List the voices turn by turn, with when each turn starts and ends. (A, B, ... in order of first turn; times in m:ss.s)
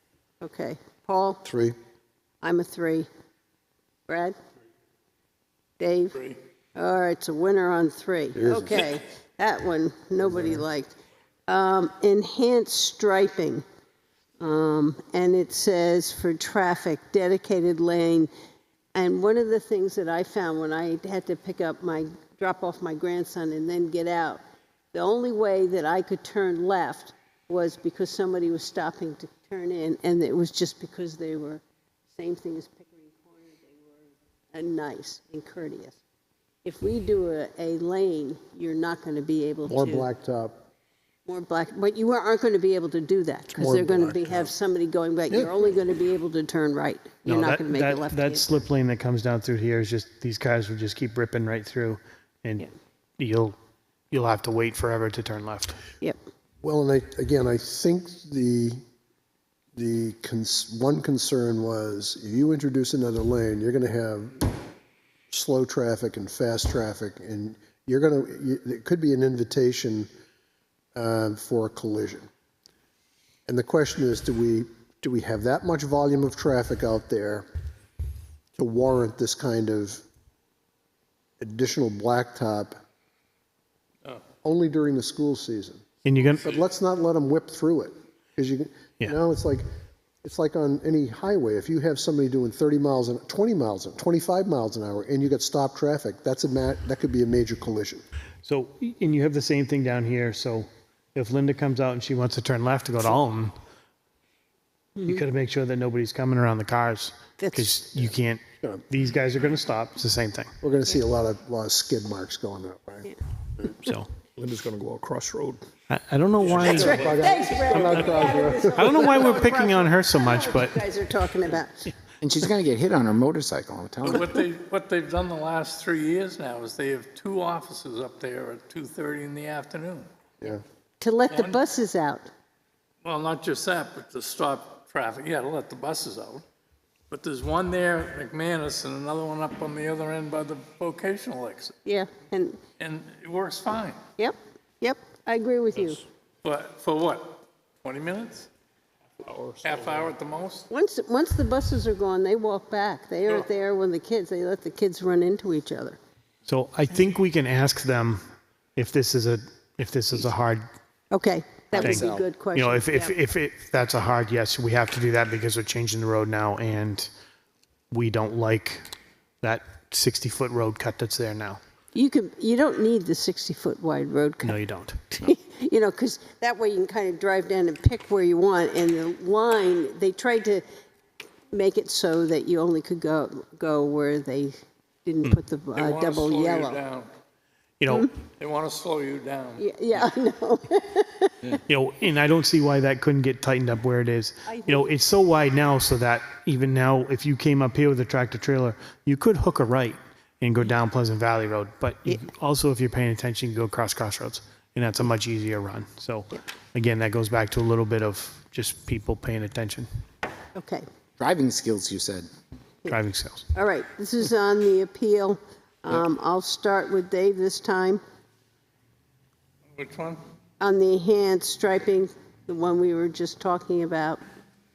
0:00.4-0:01.4 A
0:01.4-0:01.8 B
0:02.4-0:03.1 A
0:04.1-0:04.3 A
0:05.8-0:06.2 A
0:06.7-0:10.9 A
0:08.4-0:08.9 B
0:11.5-0:13.6 A
0:14.4-0:18.3 A
0:18.9-0:24.4 A
0:24.9-0:31.6 A
0:32.1-0:36.0 A
0:36.6-0:40.1 A
0:39.7-0:40.6 B
0:41.2-0:48.5 A
0:43.5-0:44.5 B
0:47.2-0:52.6 C
0:53.2-0:53.5 C
0:54.1-0:55.8 C
0:56.6-0:58.8 B
0:59.7-1:04.5 B
1:05.3-1:10.1 B
1:11.0-1:12.3 B
1:13.5-1:17.4 B
1:18.6-1:20.0 B
1:21.4-1:22.8 B
1:24.4-1:25.8 B
1:26.0-1:26.5 C
1:26.4-1:29.6 B
1:30.2-1:38.0 B
1:38.4-1:43.5 C
1:45.0-1:50.5 C
1:47.4-1:47.7 A
1:50.6-1:53.1 B
1:53.7-1:54.1 C
1:54.4-1:55.6 D
1:55.9-1:57.1 C
1:56.6-2:01.9 A
1:56.7-1:59.1 B
1:57.7-1:58.0 C
1:58.7-2:00.8 C
2:02.2-2:04.3 E
2:04.0-2:10.1 F
2:11.0-2:12.3 A
2:11.3-2:11.6 F
2:13.0-2:16.4 F
2:17.1-2:21.7 F
2:21.8-2:22.6 A
2:22.8-2:24.0 F
2:24.2-2:26.0 A
2:26.4-2:28.5 F
2:29.2-2:30.0 D
2:29.6-2:30.7 F
2:30.7-2:36.0 A
2:36.5-2:38.2 C
2:38.8-2:40.6 C
2:41.1-2:43.1 A
2:41.8-2:47.1 C
2:41.9-2:42.2 E
2:47.9-2:48.8 C
2:49.4-2:51.6 C
2:51.9-2:54.6 A
2:54.4-2:55.0 C
2:55.1-3:00.6 A
3:01.5-3:04.5 A
3:05.0-3:06.8 A
3:05.7-3:07.1 F
3:07.8-3:08.1 C
3:08.4-3:09.6 F
3:09.6-3:11.6 A
3:11.7-3:29.8 C
3:14.5-3:14.8 A
3:30.6-3:30.8 A
3:31.2-3:32.3 E
3:32.9-3:33.4 C
3:33.5-3:38.0 A
3:39.7-3:40.2 F
3:40.6-3:44.2 A